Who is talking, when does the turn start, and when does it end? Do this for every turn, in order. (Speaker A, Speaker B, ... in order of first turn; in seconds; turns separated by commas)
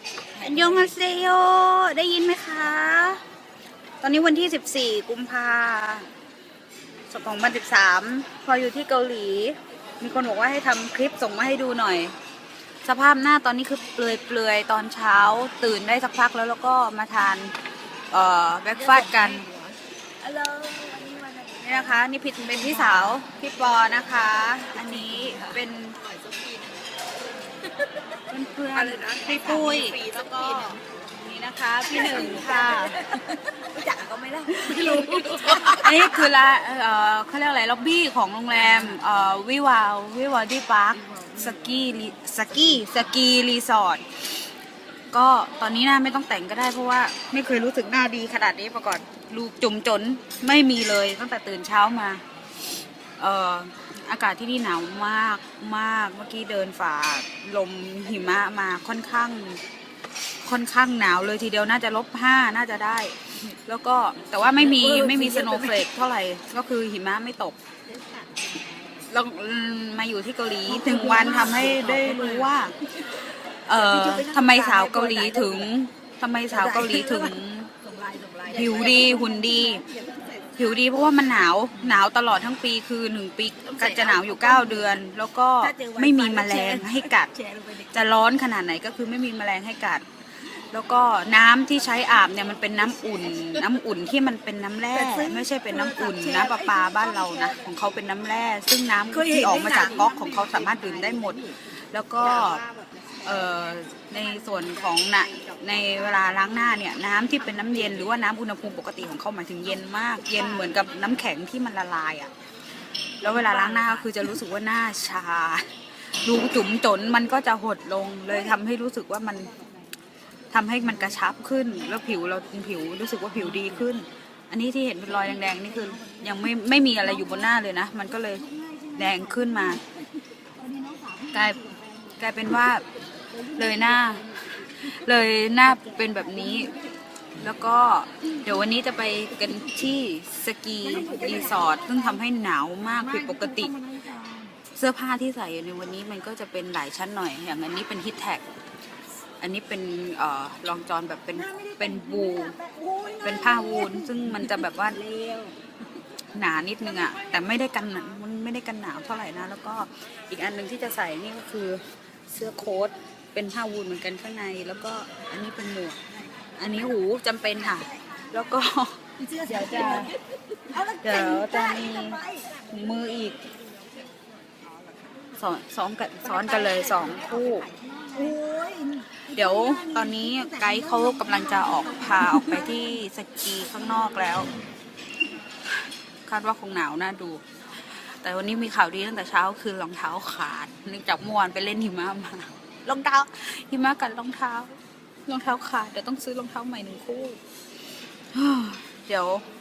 Speaker A: 0.3-1.0, Speaker B: 0.4-3.2, Speaker B: 4.0-6.1, Speaker B: 7.1-12.1, Speaker B: 12.8-17.6, Speaker B: 18.1-19.5, Speaker A: 18.8-26.8, Speaker B: 21.6-26.0, Speaker A: 27.5-27.8, Speaker B: 28.3-33.0, Speaker A: 28.7-30.9, Speaker A: 31.9-36.2, Speaker B: 34.5-44.1, Speaker A: 38.5-39.2, Speaker A: 41.1-41.8, Speaker B: 45.1-52.2, Speaker B: 53.2-59.6, Speaker B: 60.4-67.6, Speaker A: 64.5-65.8, Speaker A: 67.9-69.1, Speaker B: 69.1-77.7, Speaker A: 70.7-73.1, Speaker A: 73.7-75.7, Speaker A: 76.5-82.0, Speaker B: 78.5-79.8, Speaker B: 80.6-87.3, Speaker A: 83.7-85.0, Speaker A: 85.6-88.1, Speaker B: 87.9-102.6, Speaker A: 92.7-93.6, Speaker A: 94.9-97.8, Speaker A: 99.1-101.6, Speaker A: 102.2-106.7, Speaker B: 103.2-112.3, Speaker A: 107.4-108.1, Speaker A: 110.2-110.8, Speaker A: 113.2-114.3, Speaker B: 113.2-119.5, Speaker A: 119.4-119.7, Speaker B: 120.5-128.4, Speaker A: 123.4-123.9, Speaker A: 125.1-127.6, Speaker A: 128.2-129.9, Speaker B: 129.0-129.8, Speaker A: 130.6-132.2, Speaker B: 131.3-131.6, Speaker B: 132.2-132.8, Speaker A: 133.3-136.9, Speaker B: 133.6-134.2, Speaker B: 134.8-136.8, Speaker B: 137.4-143.7, Speaker A: 140.8-142.2, Speaker A: 143.0-144.6, Speaker B: 144.7-148.4, Speaker B: 149.4-152.6, Speaker A: 151.4-155.6, Speaker B: 153.2-155.0, Speaker B: 156.3-166.0, Speaker B: 166.6-170.2, Speaker A: 169.2-172.8, Speaker B: 170.8-173.4, Speaker A: 174.8-175.3, Speaker B: 175.4-177.7, Speaker A: 176.2-182.9, Speaker B: 179.3-184.5, Speaker A: 184.0-184.5, Speaker B: 186.3-197.4, Speaker B: 198.3-199.4